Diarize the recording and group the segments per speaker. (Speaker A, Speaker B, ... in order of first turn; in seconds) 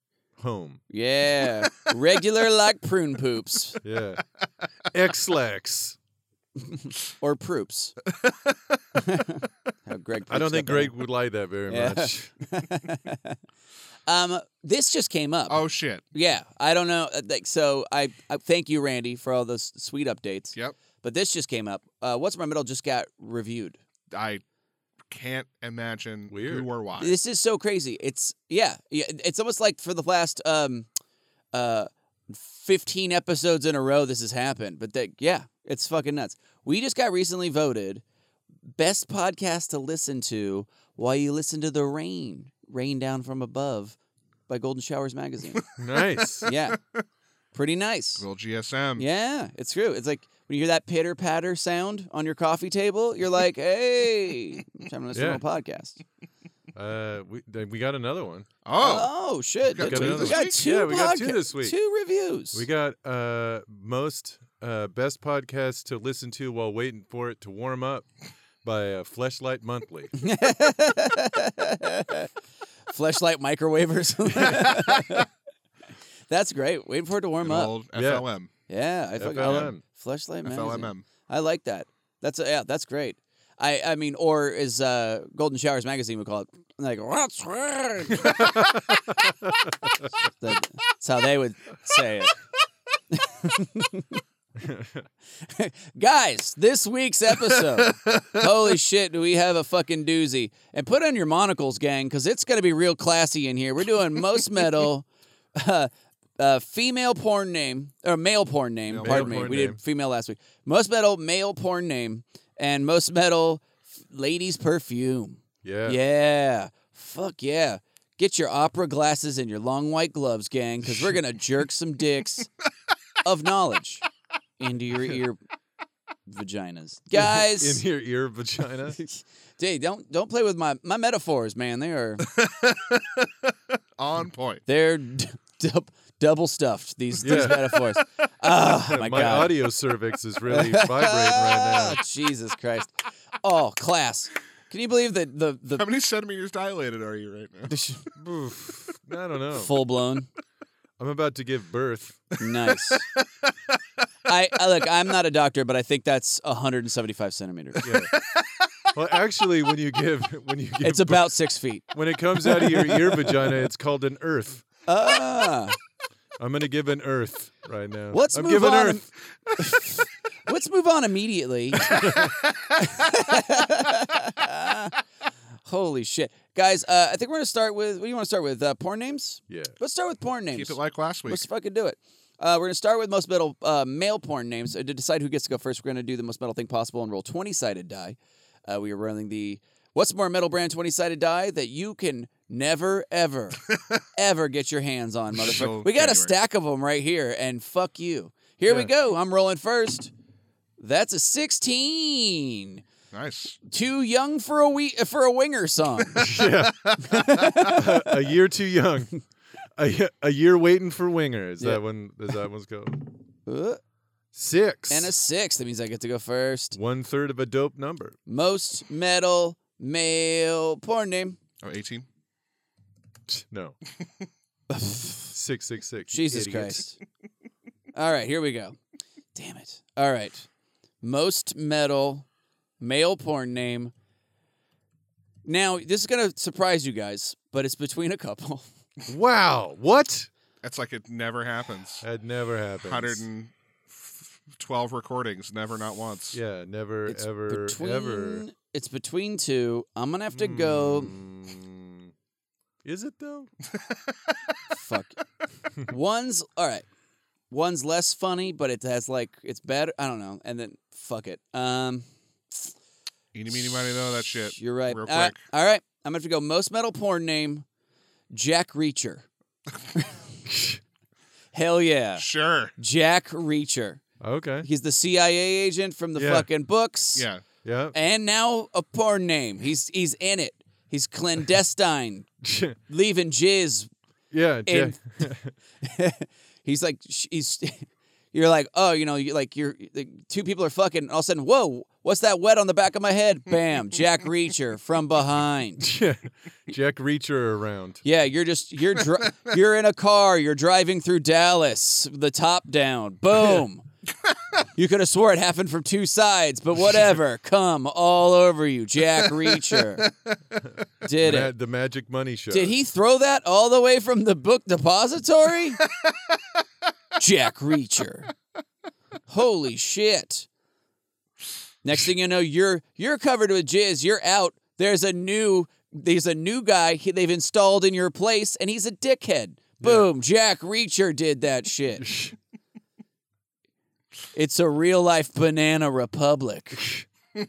Speaker A: 0.4-0.8, 3.8-4.2, 4.9-6.0, 10.3-12.3, 26.3-26.7, 45.8-46.5, 55.1-55.4, 56.7-58.5, 59.8-61.7, 62.5-68.1, 68.6-70.1, 77.9-78.2, 79.2-79.8, 88.2-90.1, 94.6-95.0, 109.0-109.8, 115.6-116.0, 120.8-121.2, 127.1-129.0, 137.2-137.7, 138.6-142.0, 148.2-149.8, 151.0-152.3, 157.8-158.1, 158.9-161.3, 161.9-164.7, 166.4-169.0, 171.9-172.3, 179.5-179.7, 206.2-206.9, 207.7-209.1, 209.8-213.1, 214.3-215.1, 216.7-218.2, 223.3-223.8, 225.3-226.8, 239.1-240.3, 242.0-243.2, 246.3-248.4, 250.3-252.1, 252.8-253.5, 270.4-270.8, 274.2-274.7, 276.1-276.5, 277.6-277.9, 282.4-282.8, 284.3-285.5, 295.8-298.0, 311.2-312.8, 329.8-330.1, 332.0-332.4
Speaker B: 0.9-3.8, 6.6-7.9, 8.9-11.0, 11.7-13.4, 14.1-15.6, 16.1-23.8, 27.0-30.9, 31.5-38.0, 38.8-44.0, 44.5-45.6, 46.4-46.8, 47.5-48.2, 49.0-56.0, 58.8-62.6, 70.1-72.3, 72.9-75.3, 76.3-77.7, 78.7-88.5, 90.4-92.3, 93.1-94.2, 95.4-122.5, 123.2-124.0, 124.6-125.4, 126.3-127.8, 129.0-132.3, 134.7-139.7, 140.5-145.8, 147.7-148.1, 149.5-150.3, 152.4-153.1, 154.3-157.8, 160.8-161.9, 162.4-163.5, 164.8-165.8, 168.1-172.2, 172.8-174.9, 175.7-193.6, 194.1-200.1, 200.8-202.8, 203.7-206.3, 207.0-208.1, 213.4-213.8, 214.9-216.8, 218.3-221.4, 224.7-225.3, 226.1-227.0, 227.9-228.8, 229.3-230.5, 231.0-232.3, 232.8-233.9, 235.4-238.6, 247.1-251.2, 254.7-255.2, 255.8-256.9, 257.5-262.0, 264.5-267.6, 268.3-269.2, 271.5-272.2, 272.8-274.0, 274.6-277.3, 277.9-282.3, 282.9-283.9, 284.6-285.3, 285.8-295.9, 298.0-303.8, 304.8-310.1, 311.0-311.5, 312.5-315.8, 317.2-318.3, 319.3-320.5, 321.8-332.1, 334.3-336.9
Speaker C: 8.2-8.6, 15.5-16.0, 24.1-24.4, 25.1-27.2, 46.2-46.6, 48.2-49.0, 58.6-59.1, 59.7-60.6, 77.4-78.5, 79.4-79.7, 80.4-81.0, 97.6-98.5, 108.9-109.5, 132.3-133.3, 134.0-134.6, 137.2-137.8, 145.8-147.8, 152.9-153.2, 157.8-158.6, 171.9-172.4, 180.5-181.4, 195.4-196.3, 203.1-203.6, 206.2-207.6, 221.6-222.1, 240.6-242.1, 242.8-246.4, 253.7-254.1, 263.3-265.4, 272.2-272.7, 277.1-277.4, 309.4-310.3